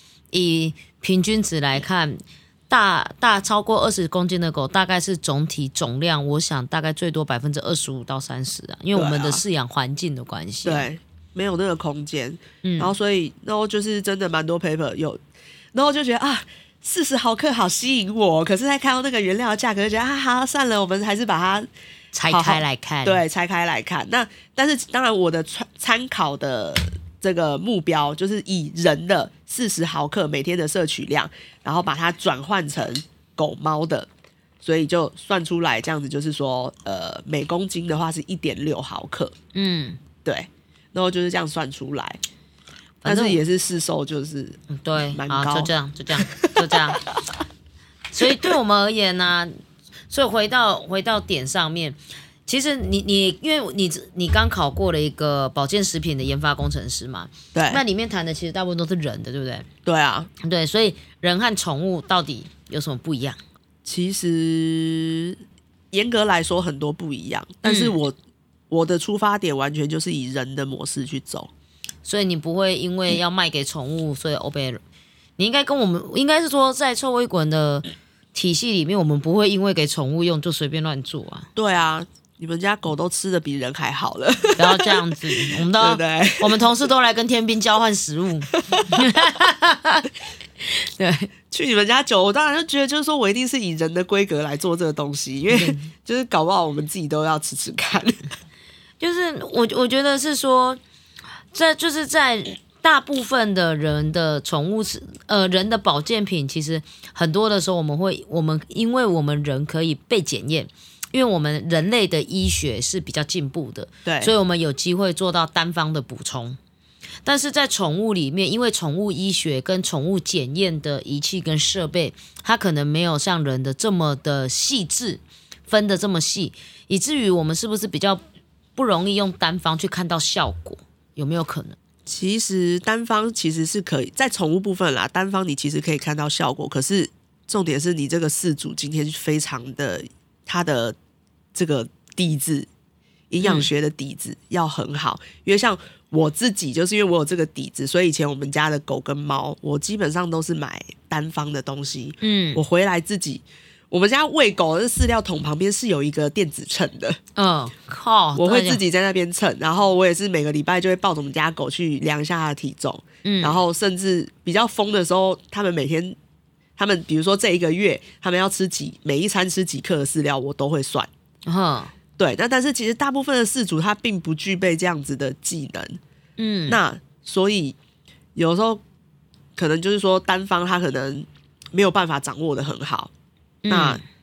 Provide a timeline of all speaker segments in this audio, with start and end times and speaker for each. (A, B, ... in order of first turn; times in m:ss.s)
0:00.3-0:10.9 A
0:09.0-0:09.4 B
0:10.6-0:15.2 B
0:12.6-0:12.9 A
0:15.7-0:21.7 B
0:22.1-0:23.2 A
0:22.3-0:34.1 B
0:34.6-0:39.3 B
0:39.5-0:40.0 A
0:40.2-0:42.2 B
0:43.0-0:43.4 A
0:43.0-0:44.6 B
0:44.7-0:47.0 A
0:45.1-0:47.2 B
0:48.1-0:49.6 A
0:48.2-0:48.5 B
0:50.1-0:59.7 A
0:57.5-0:57.8 B
0:59.8-1:00.3 B
1:00.4-1:03.4 A
1:03.8-1:05.4 B
1:05.9-1:08.2 B
1:07.6-1:08.0 A
1:08.7-1:11.5 B
1:12.0-1:14.8 A
1:15.4-1:21.5 A
1:21.6-1:26.6 B
1:24.6-1:30.1 A
1:28.7-1:29.0 B
1:30.8-1:31.3 A
1:31.5-1:38.3 B
1:35.5-1:35.9 A
1:39.0-1:40.8 A
1:41.5-1:56.6 A
1:54.0-1:54.3 B
1:57.2-2:08.2 A
2:08.8-2:11.8 A
2:12.1-2:21.0 B
2:21.5-2:22.7 B
2:23.3-2:37.2 B
2:23.4-2:23.7 A
2:32.2-2:32.6 A
2:37.4-2:38.8 A
2:38.4-2:46.2 B
2:43.2-2:43.6 A
2:46.8-2:51.1 B
2:51.5-2:51.9 A
2:52.2-2:56.0 B
2:56.4-2:56.8 A
2:56.7-2:57.8 B
2:58.4-2:58.8 B
2:59.6-3:03.1 B
3:03.6-3:04.0 A
3:03.7-3:04.0 B